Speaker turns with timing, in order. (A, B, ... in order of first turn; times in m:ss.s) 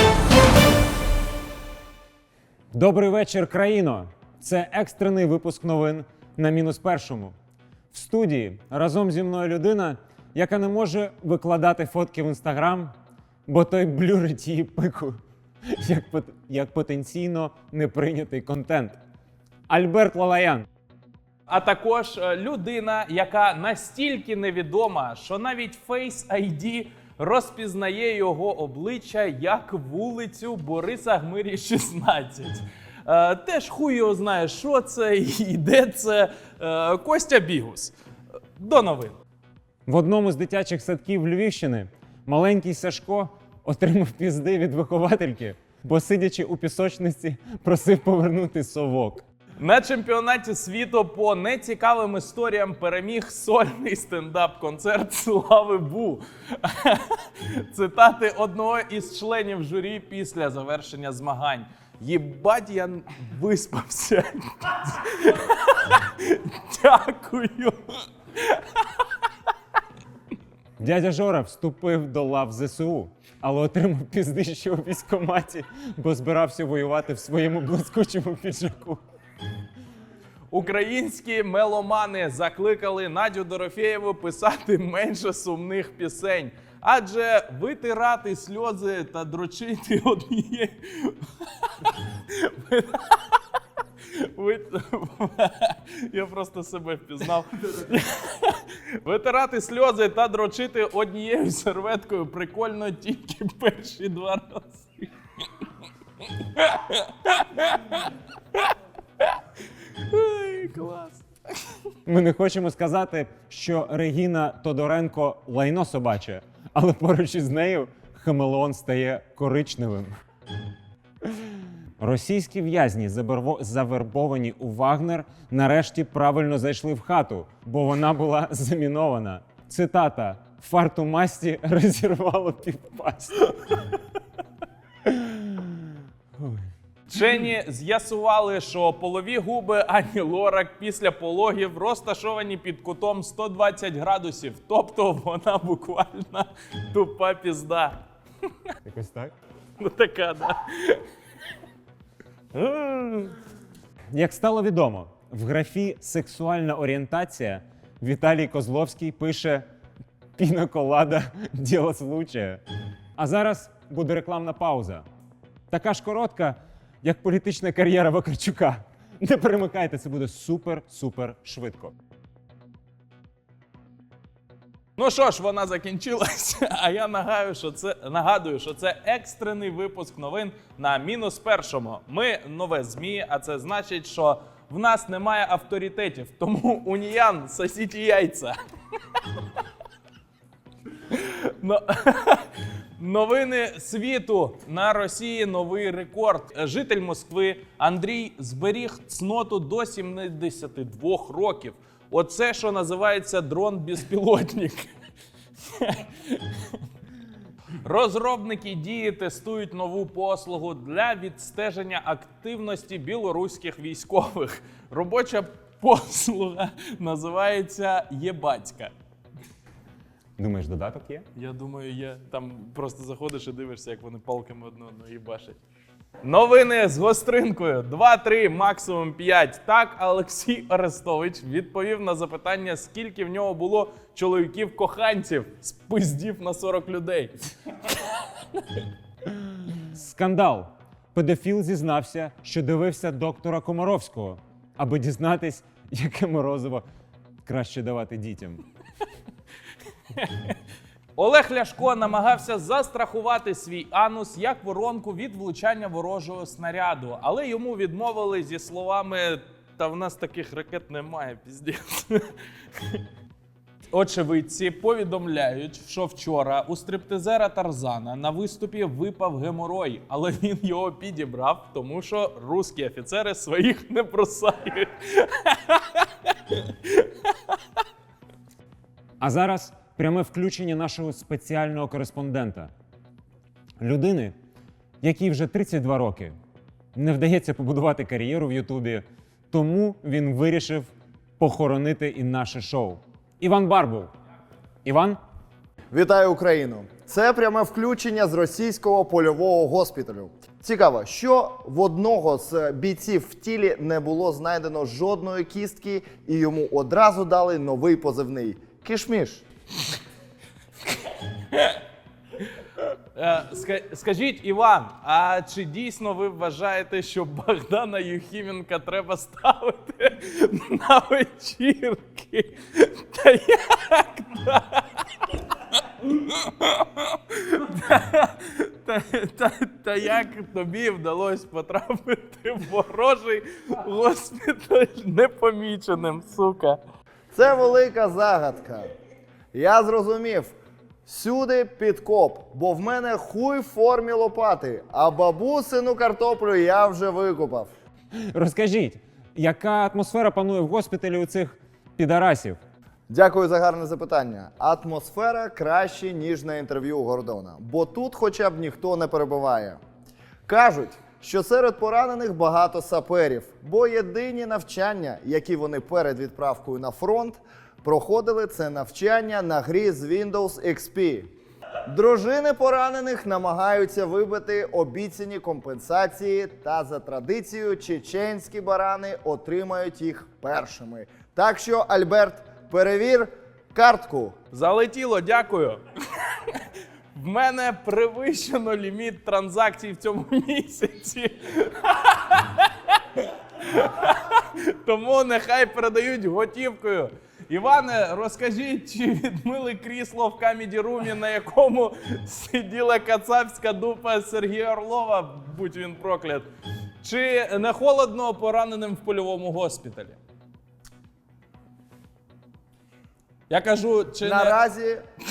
0:02.7-0:07.3 A
0:07.9-0:12.9 A
0:13.5-0:15.2 A
0:15.7-0:19.0 A
0:19.7-0:20.6 A
0:21.5-0:37.9 B
0:38.6-0:39.2 B
0:39.9-0:49.2 A
0:49.6-1:09.0 B
1:10.8-1:19.0 A
1:20.5-1:33.4 B
1:34.1-1:45.1 B
1:46.3-1:48.6 B
1:49.9-1:51.2 B
1:52.0-2:00.1 A
2:02.0-2:13.9 A
2:15.0-2:15.7 A
2:17.1-2:28.0 B
2:28.8-2:29.3 A
2:29.8-2:31.0 B
2:32.5-2:33.3 B
2:34.1-2:39.6 A
2:40.4-2:42.6 A
2:43.2-2:45.0 A
2:45.7-2:51.9 A
2:55.0-3:08.5 B
3:11.1-3:24.9 B
3:25.7-3:26.8 B
3:27.8-3:38.9 B
3:40.4-3:41.2 A
3:41.3-3:45.6 B
3:46.2-3:58.8 B
3:59.8-4:06.8 A
4:07.4-4:08.6 A
4:10.1-4:10.6 B
4:11.1-4:22.2 B
4:22.8-4:23.0 B
4:23.9-4:37.5 B
4:39.2-4:42.7 A
4:43.8-4:44.3 A
4:45.0-4:46.3 A
4:46.9-4:54.1 A
4:54.8-4:55.2 A
4:55.9-5:09.4 C
5:11.5-5:11.8 B
5:13.1-5:25.4 B
5:26.0-5:36.8 B
5:37.3-5:38.9 C
5:39.5-5:40.5 C
5:41.0-5:47.7 C
5:48.3-5:52.6 A
5:53.1-5:59.8 C
6:00.4-6:11.3 C
6:11.9-6:24.3 C
6:24.5-6:26.6 B
6:27.1-6:46.5 B
6:47.0-6:50.2 B
6:53.5-6:54.6 B
6:54.2-6:55.0 C